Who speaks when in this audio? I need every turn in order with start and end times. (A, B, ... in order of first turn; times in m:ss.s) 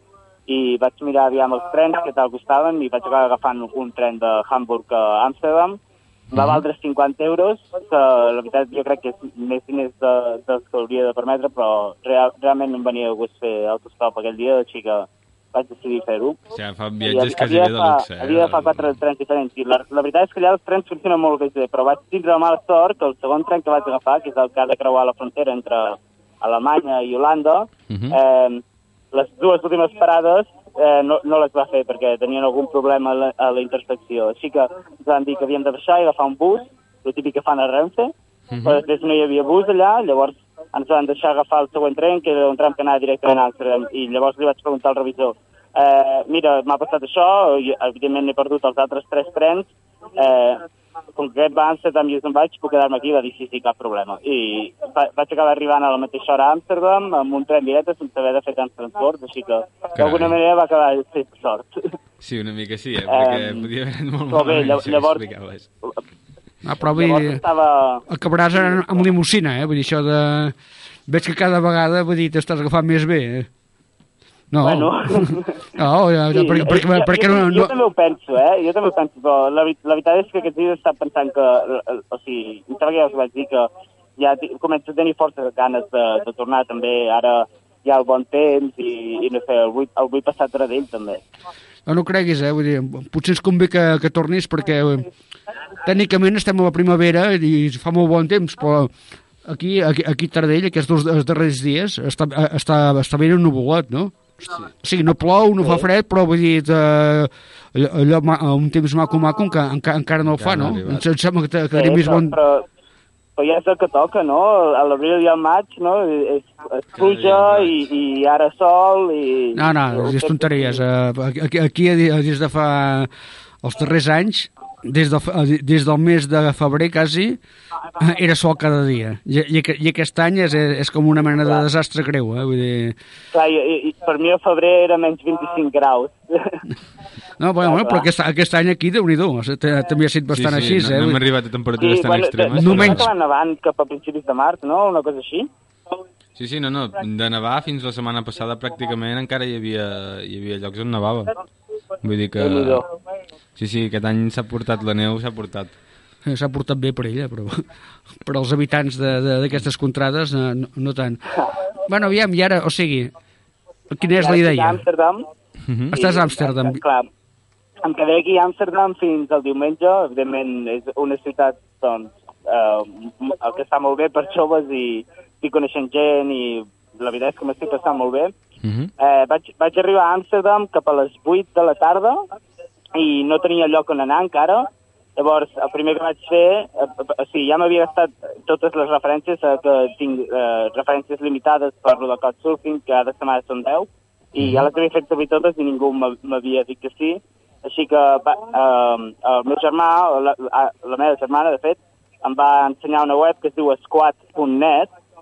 0:00.5-0:05.8 A
0:06.3-0:06.6 B
0:06.3-0:16.4 A
0:16.5-0:19.0 B
0:17.1-0:38.1 A
0:27.9-0:28.2 B
0:38.5-0:38.8 B
0:38.6-1:01.9 A
1:00.0-1:00.4 B
1:02.2-1:05.7 B
1:03.1-1:03.7 A
1:04.3-1:05.2 A
1:06.6-1:07.4 C
1:06.9-1:08.0 A
1:08.1-1:10.5 C
1:11.1-1:13.5 C
1:14.5-1:17.7 C
1:14.6-1:15.7 A
1:16.3-1:31.2 A
1:31.9-1:35.1 C
1:35.8-1:38.9 C
1:39.4-1:52.4 C
1:50.2-1:51.0 B
1:51.7-1:52.7 A
1:53.4-2:00.7 A
1:57.0-1:57.8 B
1:59.5-2:03.1 C
2:03.6-2:07.4 C
2:08.0-2:13.0 C
2:13.3-2:16.6 A
2:17.4-2:21.2 C
2:17.6-2:18.1 A
2:20.3-2:23.1 B
2:21.8-2:25.5 A
2:22.6-2:23.1 C
2:26.3-2:31.3 B
2:32.0-2:32.8 B
2:32.4-2:32.9 A
2:33.6-2:35.7 B
2:36.2-2:37.6 C
2:38.2-2:41.3 C
2:41.8-2:43.1 C
2:43.9-2:44.8 C
2:44.2-2:45.3 A
2:45.6-2:45.9 B
2:45.9-2:46.8 C
2:45.9-2:47.1 A
2:47.8-2:58.3 A
2:58.6-2:58.9 B
2:59.0-3:02.2 A
3:02.9-3:24.9 A
3:14.4-3:14.7 B